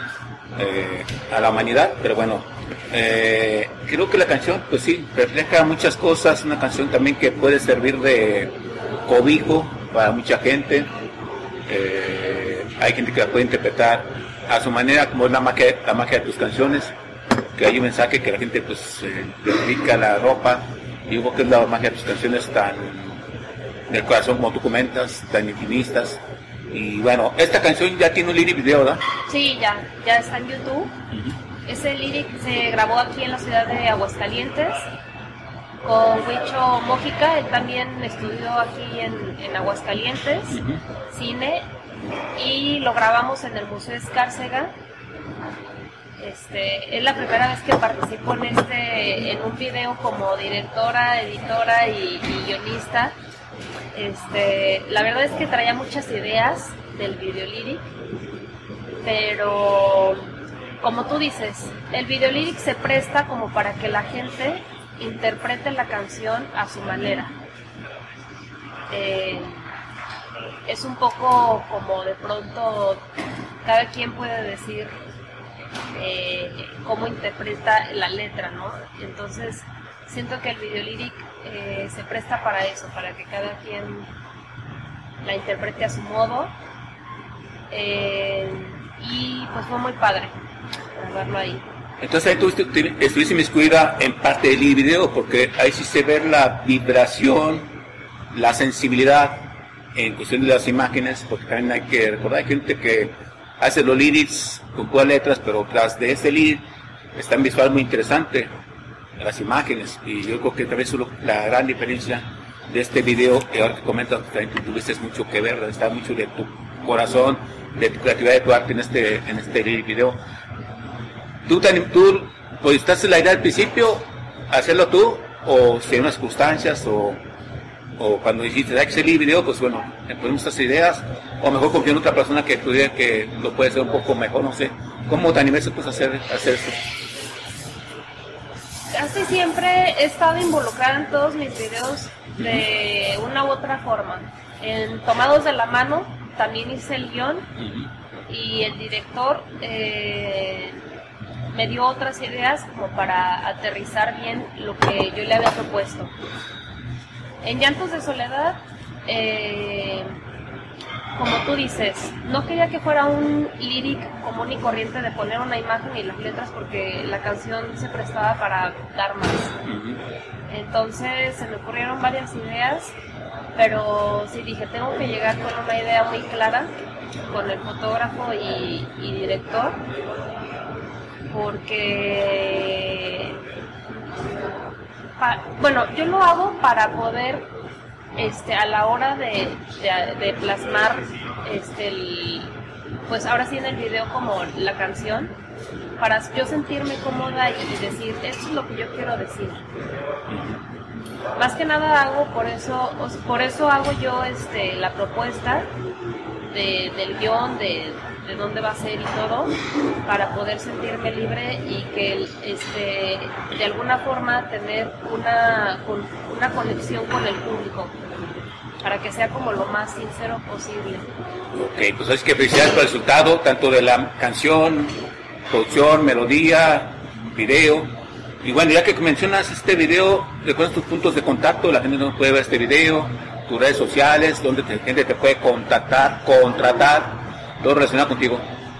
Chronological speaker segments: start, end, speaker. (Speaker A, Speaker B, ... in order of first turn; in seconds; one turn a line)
Speaker A: 0.6-8.5
Speaker A: 9.1-10.9
Speaker A: 11.7-16.9
Speaker A: 17.6-23.2
Speaker A: 23.9-29.0
Speaker B: 29.3-30.9
Speaker B: 31.7-34.9
Speaker B: 35.8-41.6
Speaker A: 40.5-40.8
Speaker B: 42.4-44.7
Speaker B: 46.2-53.1
Speaker B: 53.9-57.9
Speaker B: 59.0-60.2
Speaker B: 60.8-67.3
Speaker B: 68.9-69.6
Speaker B: 70.7-73.0
Speaker B: 73.6-74.9
Speaker B: 75.9-84.1
Speaker B: 85.2-86.5
Speaker B: 87.7-90.3
Speaker B: 90.9-91.6
Speaker A: 92.0-97.7
Speaker A: 98.3-108.5
Speaker A: 109.2-120.2
Speaker A: 121.5-127.2
Speaker A: 128.0-136.8
Speaker B: 138.9-147.5
Speaker A: 147.6-147.9
Speaker B: 148.3-150.8
Speaker B: 151.5-156.1
Speaker B: 157.4-160.1
Speaker B: 161.1-169.6
Speaker A: 169.6-170.0
Speaker B: 170.5-172.9
Speaker B: 173.5-176.7
Speaker B: 177.3-179.8
Speaker B: 181.3-183.4
Speaker B: 185.2-187.5
Speaker B: 188.2-192.5
Speaker B: 193.1-195.3
Speaker B: 196.0-199.7
Speaker A: 200.3-200.6
Speaker B: 201.4-205.7
Speaker B: 206.5-218.0
Speaker B: 218.8-221.1
Speaker A: 221.5-225.0
Speaker A: 225.5-238.5